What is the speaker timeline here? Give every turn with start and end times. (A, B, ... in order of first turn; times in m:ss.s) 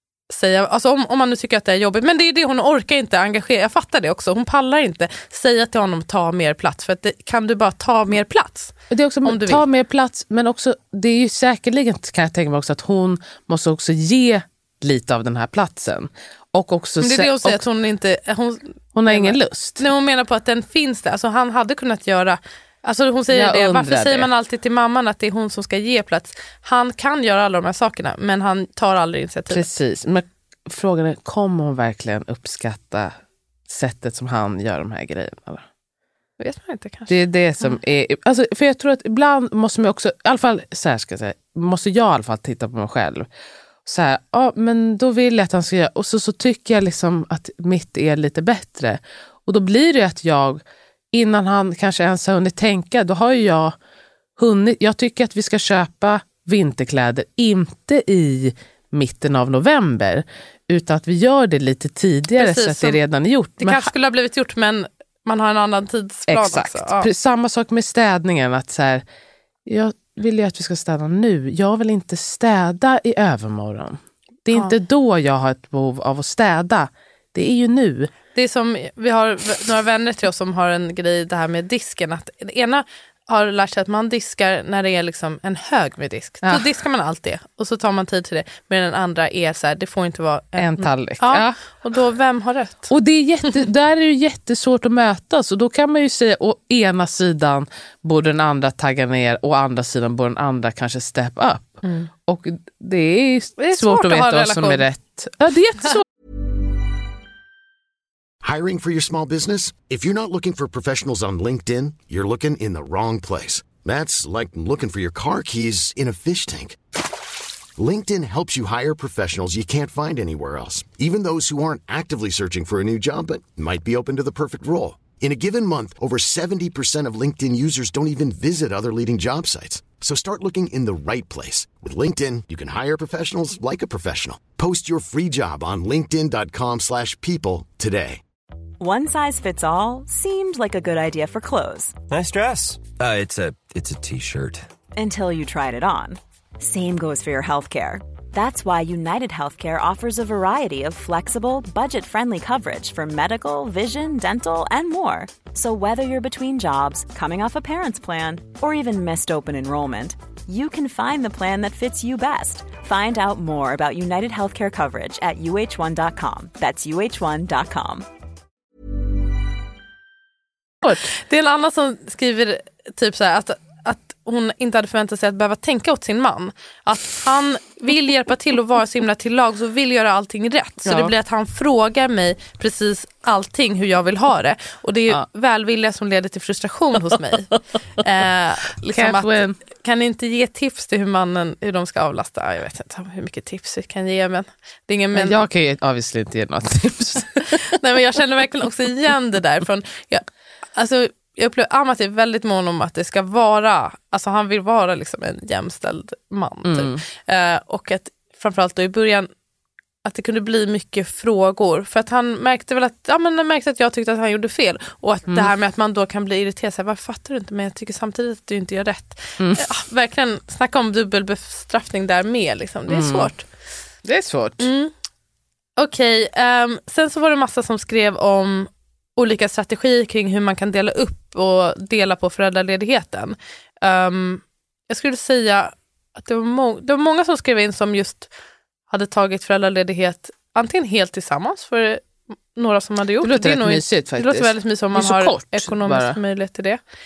0:00.3-0:09.6 A
0:08.9-0:17.6 B
0:17.0-0:29.7 A
0:18.9-0:19.8 B
0:23.3-0:24.3 B
0:29.5-0:33.1 B
0:33.7-0:35.6 B
0:36.4-0:37.8 A
0:37.1-0:43.3 B
0:43.8-0:53.8 B
0:54.4-1:03.9 B
1:02.4-1:03.0 A
1:03.6-1:07.1 A
1:06.3-1:09.0 B
1:09.6-1:18.1 B
1:18.3-1:32.9 A
1:30.6-1:31.6 B
1:32.9-1:46.0 B
1:41.8-1:42.1 A
1:43.6-1:44.8 A
1:48.4-1:57.0 C
1:57.8-2:18.2 C
2:18.8-2:22.0 D
2:22.1-2:24.7 E
2:24.9-2:48.1 D
2:50.9-3:15.4 A
3:00.8-3:01.1 B
3:08.8-3:09.6 B
3:15.1-3:17.6 B
3:17.5-3:29.3 A
3:26.6-3:27.0 B
3:30.0-3:43.4 A
3:39.4-3:39.7 B
3:42.9-3:43.3 B
3:44.0-3:44.7 B
3:44.6-3:44.9 A
3:45.8-3:58.3 A
3:58.9-4:06.8 A
4:03.2-4:06.2 B